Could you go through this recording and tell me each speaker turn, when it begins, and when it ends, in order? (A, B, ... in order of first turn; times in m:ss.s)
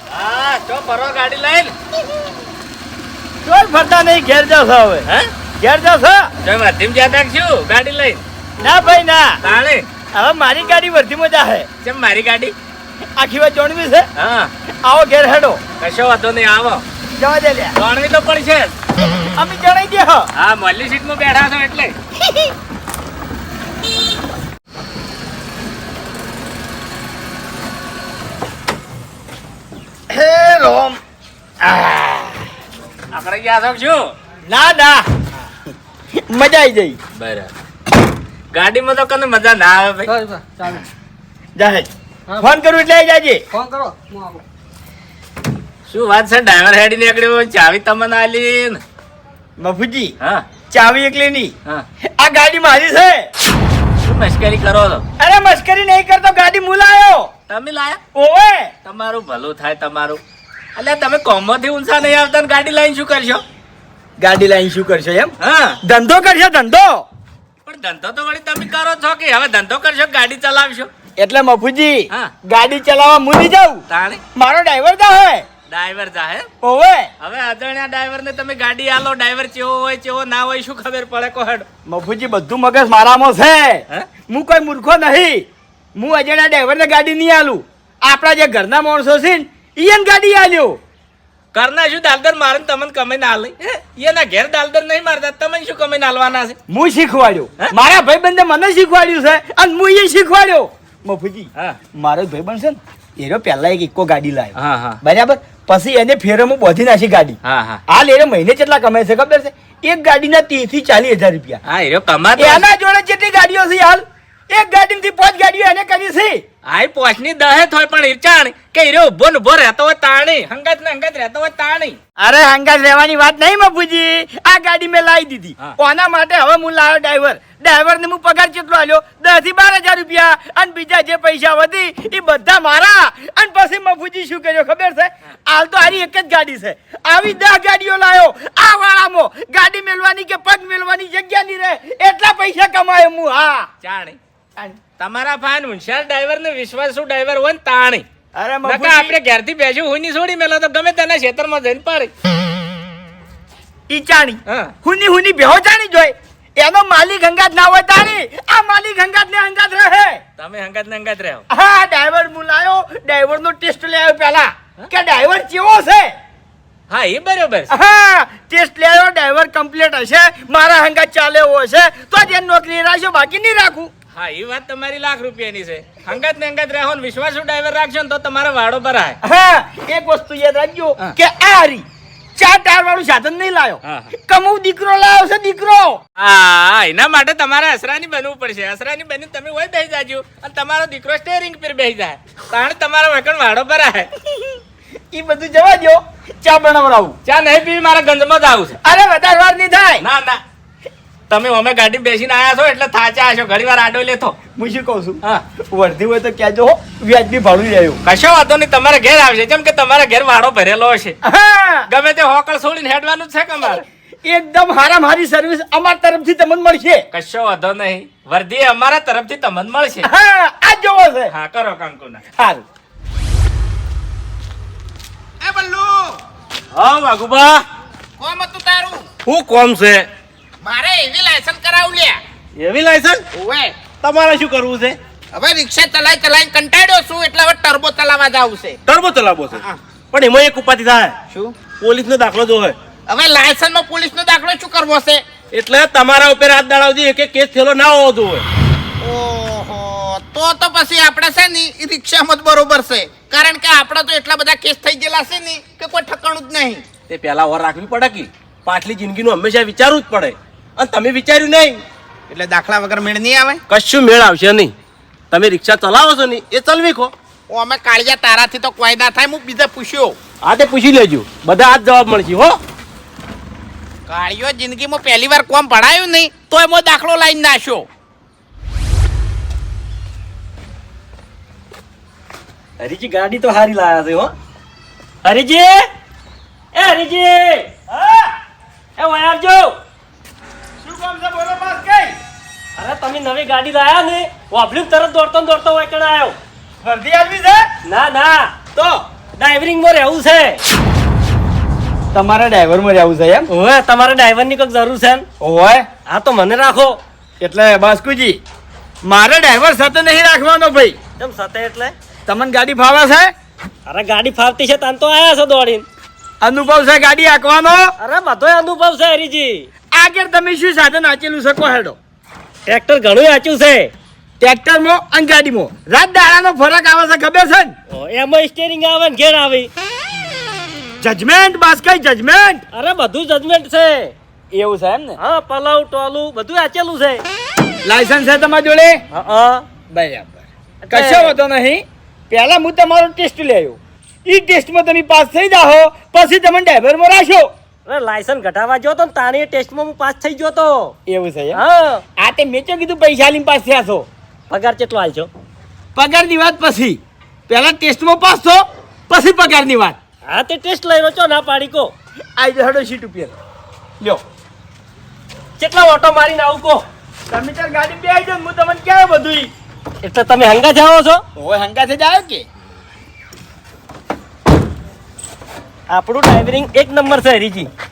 0:00.1-0:01.7 A
0:03.4-0:05.1 B
0:05.6-0:06.3 B
0:06.4-0:08.2 A
0:08.6-0:09.4 B
0:09.4-0:09.8 A
0:10.1-0:11.7 B
0:11.8-0:12.5 A
0:13.2-0:14.1 B
0:14.2-0:14.5 A
0:14.8-0:15.6 B
0:15.8-0:16.8 A
0:17.2-0:17.8 B
0:17.8-0:18.7 A
0:19.3-0:20.3 B
0:20.3-0:21.9 A
0:30.1-0:31.0 B
0:31.6-0:32.4 B
0:33.1-0:34.1 A
0:34.4-0:35.0 B
0:36.2-0:37.0 B
0:37.2-0:37.5 A
0:38.5-0:40.2 A
0:41.6-0:43.4 B
0:45.9-0:48.8 A
0:49.6-0:50.1 B
0:50.7-0:51.5 B
0:52.2-0:53.3 B
0:54.0-0:55.0 A
0:55.2-0:57.3 B
0:57.5-0:58.0 A
0:58.1-0:58.7 B
0:58.8-1:00.2 A
1:00.8-1:03.4 A
1:04.2-1:07.0 B
1:05.4-1:05.8 A
1:07.6-1:10.9 A
1:11.2-1:13.8 B
1:13.9-1:14.2 A
1:14.3-1:15.4 B
1:15.7-1:16.5 A
1:16.6-1:17.1 B
1:17.2-1:21.6 A
1:21.8-1:30.8 B
1:31.5-1:36.6 A
1:36.7-1:47.4 B
1:44.6-1:45.0 A
1:47.4-1:47.8 A
1:47.9-1:51.6 B
1:51.6-1:52.6 A
1:52.4-1:56.4 B
1:56.6-2:02.0 A
2:02.2-2:23.7 B
2:23.8-2:24.2 A
2:25.0-2:28.0 A
2:28.3-2:29.2 B
2:28.6-2:32.1 A
2:33.9-2:40.2 B
2:34.5-2:34.7 A
2:40.4-2:41.4 A
2:41.5-2:46.1 B
2:46.9-2:47.7 A
2:47.7-2:53.9 B
2:54.1-2:59.2 A
2:59.2-3:01.8 B
3:02.4-3:06.0 B
3:03.8-3:04.1 A
3:06.2-3:14.1 A
3:15.1-3:17.2 B
3:17.2-3:18.8 A
3:18.8-3:20.0 B
3:20.0-3:20.4 A
3:21.3-3:24.4 A
3:24.6-3:25.2 B
3:25.7-3:28.0 B
3:28.0-3:31.2 A
3:31.2-3:31.9 B
3:31.9-3:33.8 A
3:34.2-3:37.0 B
3:37.1-3:40.1 A
3:40.0-3:41.3 B
3:41.3-3:42.2 A
3:42.4-3:42.6 B
3:45.4-3:46.2 C
3:46.7-3:47.6 D
3:48.2-3:49.1 C
3:49.2-3:50.0 D
3:50.6-3:52.2 C
3:52.6-3:53.2 D
3:53.3-3:53.8 C
3:53.9-3:55.0 D
3:55.3-3:58.8 C
3:58.9-4:02.8 D
4:03.1-4:05.2 C
4:05.5-4:08.4 D
4:09.0-4:16.8 C
4:17.1-4:21.8 D
4:22.3-4:23.6 C
4:23.7-4:24.7 D
4:25.3-4:27.1 D
4:27.5-4:30.2 C
4:30.4-4:32.6 D
4:34.1-4:37.9 C
4:42.8-4:44.3 E
4:45.2-4:45.9 E
4:46.7-4:47.7 E
4:47.9-4:48.3 B
4:49.0-4:49.8 E
4:50.8-4:52.2 B
4:52.8-4:56.4 E
4:56.8-4:57.7 B
4:57.8-4:58.6 E
4:58.8-4:59.0 B
4:59.4-5:00.6 E
5:02.1-5:03.5 B
5:03.5-5:05.2 E
5:05.4-5:05.9 B
5:06.1-5:07.0 E
5:07.4-5:08.4 B
5:09.0-5:11.0 B
5:11.2-5:11.9 E
5:12.3-5:13.3 B
5:13.9-5:15.8 E
5:16.4-5:17.9 B
5:18.0-5:19.7 E
5:19.9-5:22.0 B
5:22.7-5:23.9 E
5:24.4-5:27.7 B
5:27.9-5:29.7 E
5:31.0-5:32.6 B
5:32.7-5:34.1 E
5:34.5-5:35.2 B
5:35.2-5:37.2 E
5:37.8-5:39.0 B
5:39.1-5:39.6 E
5:39.9-5:47.5 B
5:40.8-5:41.4 E
5:47.8-5:50.9 E
5:51.1-5:51.6 B
5:51.5-5:52.0 E
5:52.2-5:54.1 B
5:54.5-5:55.3 E
5:56.0-6:00.0 B
6:00.3-6:01.9 E
6:02.4-6:03.3 B
6:05.6-6:06.8 E
6:07.3-6:09.5 B
6:10.0-6:11.2 E
6:11.4-6:12.4 B
6:15.9-6:17.7 E